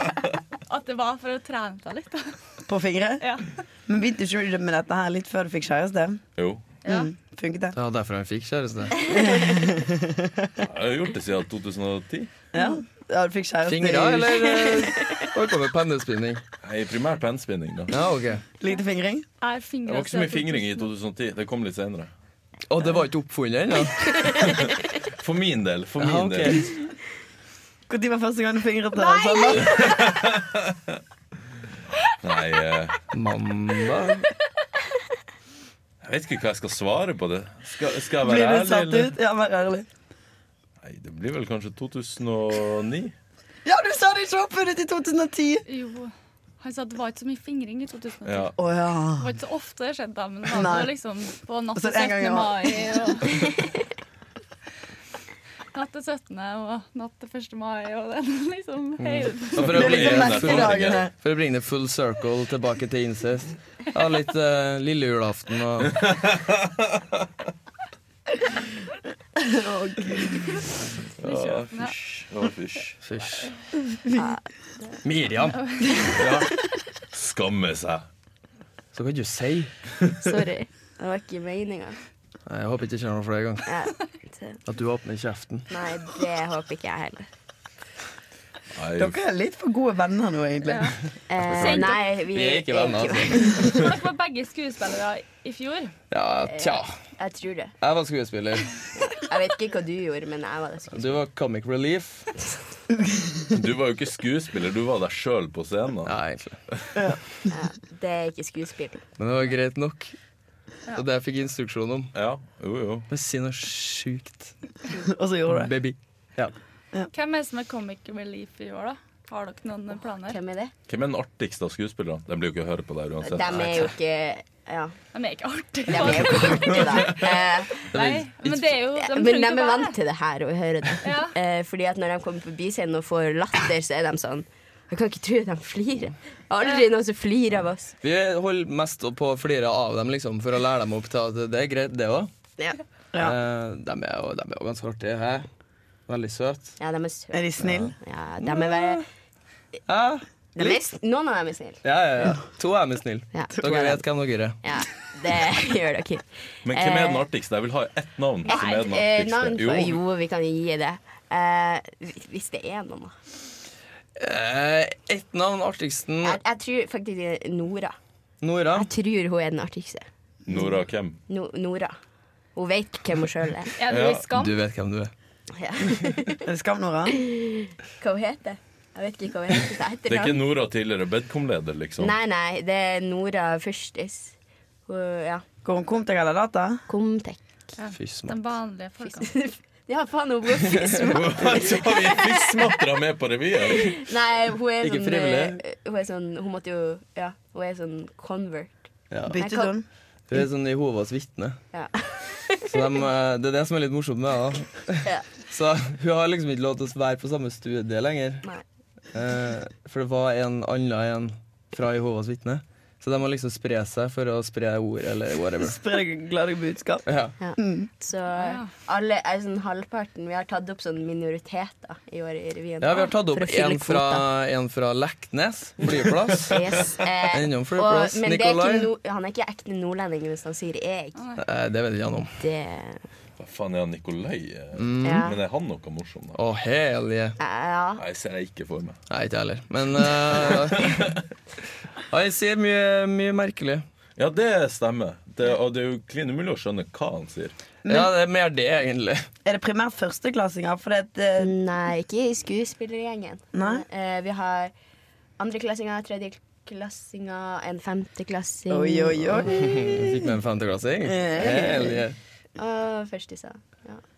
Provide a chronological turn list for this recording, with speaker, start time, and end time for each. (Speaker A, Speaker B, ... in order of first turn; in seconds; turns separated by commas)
Speaker A: 0.7-2.4, Speaker B: 2.7-3.2, Speaker A: 3.2-3.5, Speaker B: 3.9-6.2, Speaker C: 6.4-6.6, Speaker A: 6.8-7.1, Speaker B: 6.8-7.8, Speaker D: 7.7-9.0, Speaker B: 9.1-10.5, Speaker C: 10.6-12.3, Speaker B: 12.5-14.8, Speaker D: 13.7-16.4, Speaker C: 16.6-18.0, Speaker D: 17.9-18.4, Speaker B: 18.6-19.2, Speaker A: 19.4-20.9, Speaker C: 19.9-22.1, Speaker D: 22.7-24.4, Speaker E: 24.1-24.4, Speaker C: 24.4-26.7, Speaker D: 26.0-26.7, Speaker B: 27.9-29.8, Speaker A: 29.2-29.8, Speaker E: 29.5-29.8, Speaker C: 29.6-31.0, Speaker C: 32.2-33.0, Speaker D: 33.1-34.3, Speaker C: 36.0-39.1, Speaker B: 38.2-39.9, Speaker C: 40.8-43.1, Speaker B: 43.6-45.6, Speaker A: 45.7-48.5, Speaker C: 48.2-48.5, Speaker B: 48.6-49.3, Speaker A: 49.2-53.4, Speaker B: 50.5-50.9, Speaker B: 51.8-52.9, Speaker A: 55.7-59.7, Speaker D: 59.0-66.0, Speaker C: 59.6-61.1, Speaker B: 59.7-61.1, Speaker C: 65.8-67.2, Speaker B: 69.4-70.6, Speaker C: 71.2-73.0, Speaker A: 71.2-71.9, Speaker D: 73.0-73.5, Speaker B: 73.9-74.3, Speaker E: 74.1-75.0, Speaker D: 75.0-76.5, Speaker A: 75.5-76.2, Speaker C: 77.1-78.1, Speaker D: 78.9-79.7, Speaker E: 80.2-82.0, Speaker D: 82.5-83.7, Speaker E: 83.7-84.6, Speaker D: 84.7-85.7, Speaker E: 85.7-87.3, Speaker C: 88.8-89.2, Speaker B: 89.0-91.0, Speaker A: 90.7-91.0, Speaker E: 91.3-94.0, Speaker D: 91.4-93.9, Speaker A: 91.5-92.0, Speaker A: 93.6-95.9, Speaker D: 96.1-96.9, Speaker E: 96.5-97.7, Speaker D: 97.8-98.8, Speaker E: 99.0-101.2, Speaker D: 100.9-102.3, Speaker C: 103.5-106.2, Speaker D: 106.1-106.6, Speaker C: 106.7-106.9, Speaker B: 107.0-107.2, Speaker E: 107.5-109.0, Speaker D: 109.2-110.1, Speaker D: 110.9-112.1, Speaker C: 112.1-113.1, Speaker D: 113.1-114.5, Speaker B: 114.9-115.7, Speaker D: 115.5-116.5, Speaker A: 117.1-120.4, Speaker E: 120.3-120.7, Speaker C: 120.9-123.9, Speaker E: 123.2-125.0, Speaker A: 125.1-127.2, Speaker E: 125.9-127.9, Speaker A: 127.9-130.0, Speaker D: 127.9-128.8, Speaker E: 128.9-137.9, Speaker A: 131.0-131.4, Speaker D: 138.0-142.3, Speaker D: 143.2-145.5, Speaker D: 146.1-146.8, Speaker E: 146.8-149.0, Speaker B: 147.3-147.9, Speaker D: 147.6-149.0, Speaker D: 149.9-150.8, Speaker E: 150.6-152.3, Speaker D: 151.8-154.6, Speaker E: 153.3-154.0, Speaker E: 154.6-157.2, Speaker C: 156.6-160.0, Speaker E: 158.4-163.1, Speaker D: 164.2-166.4, Speaker E: 166.2-167.9, Speaker D: 168.4-168.9, Speaker E: 168.7-170.1, Speaker C: 170.4-171.2, Speaker E: 171.3-171.9, Speaker E: 172.6-173.7, Speaker A: 173.8-174.6, Speaker C: 173.9-174.3, Speaker D: 174.3-175.1, Speaker E: 175.6-176.5, Speaker B: 176.4-177.2, Speaker E: 177.1-180.4, Speaker C: 180.1-182.1, Speaker E: 182.0-184.3, Speaker E: 184.9-185.4, Speaker B: 185.6-186.8, Speaker E: 186.9-187.4, Speaker A: 187.8-189.3, Speaker D: 187.9-188.4, Speaker E: 189.0-192.8, Speaker C: 191.1-194.0, Speaker E: 193.7-199.7, Speaker D: 194.8-195.6, Speaker D: 199.1-199.4, Speaker B: 199.3-199.9, Speaker D: 200.3-201.6, Speaker E: 201.7-202.8, Speaker D: 202.6-208.5, Speaker D: 209.1-215.8, Speaker B: 215.6-217.1, Speaker D: 217.1-217.4, Speaker E: 217.4-224.2, Speaker B: 217.6-217.9, Speaker A: 218.4-218.7, Speaker D: 222.8-226.6, Speaker E: 226.4-231.2, Speaker D: 227.3-228.9, Speaker A: 231.1-231.4, Speaker D: 231.4-232.4, Speaker E: 232.4-233.1, Speaker C: 233.4-236.4, Speaker D: 234.8-235.3, Speaker E: 235.0-235.4, Speaker D: 236.4-237.4, Speaker E: 237.4-238.0, Speaker C: 238.0-239.0, Speaker D: 239.1-241.1, Speaker C: 240.4-241.2, Speaker D: 242.1-243.8, Speaker C: 244.2-247.6, Speaker B: 247.8-248.1, Speaker D: 247.9-249.3, Speaker B: 249.4-251.5, Speaker E: 251.4-254.7, Speaker B: 253.5-253.8, Speaker E: 255.4-259.9, Speaker B: 258.7-260.3, Speaker D: 259.4-262.2, Speaker B: 261.0-261.9, Speaker E: 261.4-262.0, Speaker E: 262.6-264.0